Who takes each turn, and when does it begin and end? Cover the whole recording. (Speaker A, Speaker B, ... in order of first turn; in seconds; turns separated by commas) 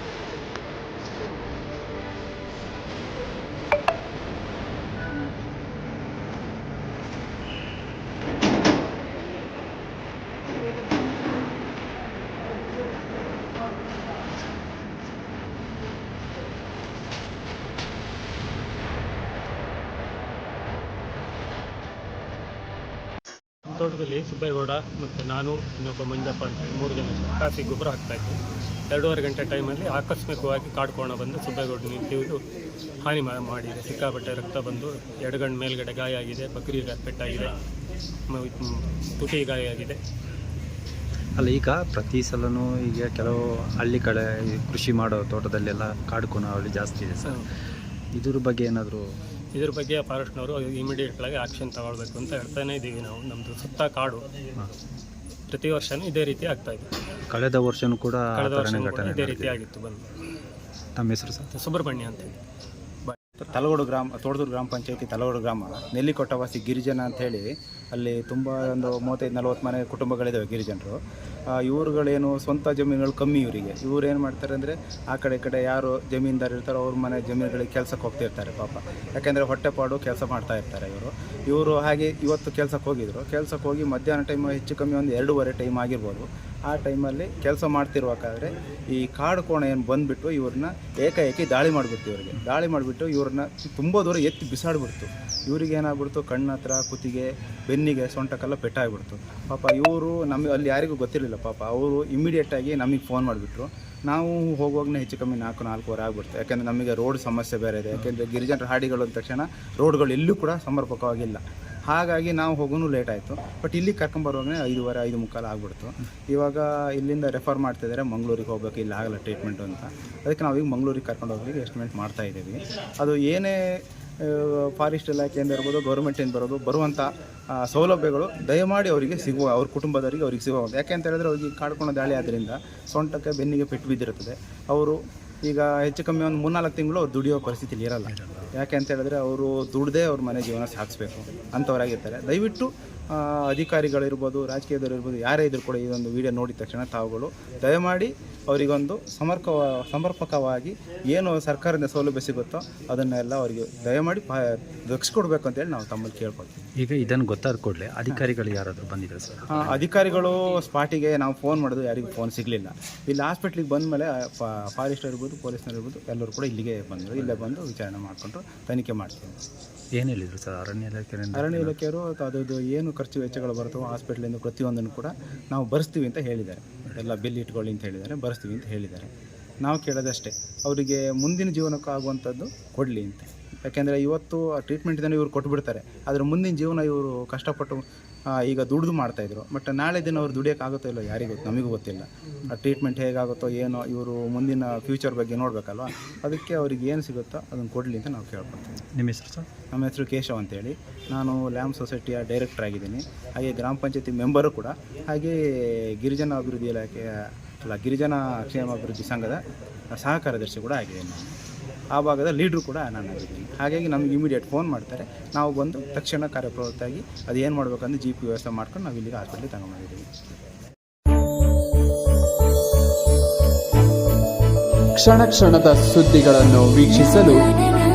Speaker A: 23.8-28.4, Speaker A: 28.9-32.4, Speaker A: 33.0-37.5, Speaker A: 38.3-40.0, Speaker B: 41.4-47.4, Speaker B: 48.1-49.0, Speaker A: 49.5-54.2, Speaker A: 55.5-56.9, Speaker B: 57.3-59.6, Speaker A: 58.3-60.0, Speaker B: 61.0-61.5, Speaker A: 61.5-62.3, Speaker C: 63.1-71.0, Speaker C: 71.5-156.7, Speaker B: 138.1-138.5, Speaker B: 156.8-159.9, Speaker C: 159.5-169.4, Speaker B: 169.9-171.8, Speaker C: 171.3-179.1, Speaker C: 179.6-187.8, Speaker C: 188.3-198.8, Speaker B: 198.9-199.5, Speaker C: 199.7-209.4, Speaker C: 210.0-211.3, Speaker C: 211.9-220.1, Speaker D: 225.0-227.5